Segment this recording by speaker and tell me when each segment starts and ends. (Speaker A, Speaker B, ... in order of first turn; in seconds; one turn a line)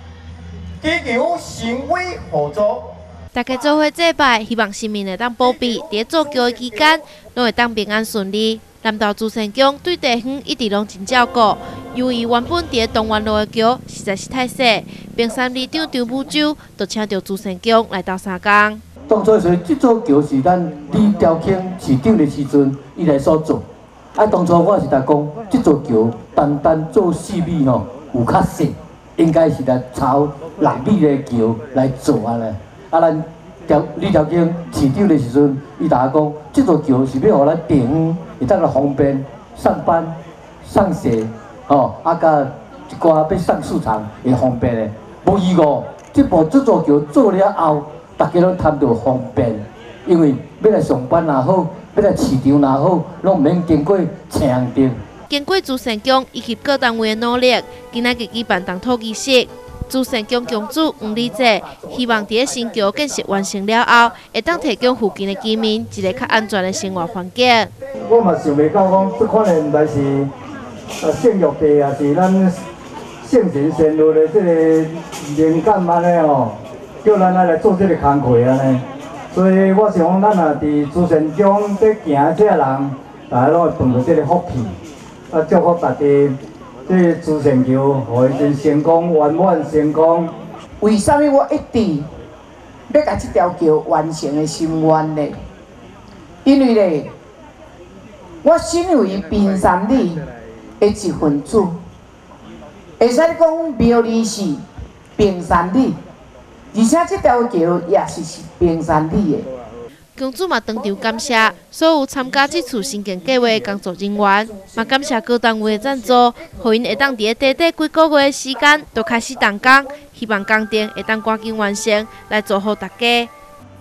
Speaker A: 0.8-2.9
Speaker B: 3.3-18.8
Speaker C: 19.1-23.6
Speaker C: 24.1-55.0
Speaker B: 55.3-67.7
Speaker D: 68.0-70.3
Speaker D: 71.0-72.6
Speaker D: 73.2-84.8
Speaker D: 85.3-90.3
Speaker E: 90.8-92.1
Speaker E: 92.9-95.3
Speaker E: 96.4-97.1
Speaker E: 98.4-100.2
Speaker E: 100.8-101.8
Speaker E: 103.0-104.6
Speaker E: 105.2-106.0
Speaker E: 106.7-109.5
Speaker B: 110.2-123.3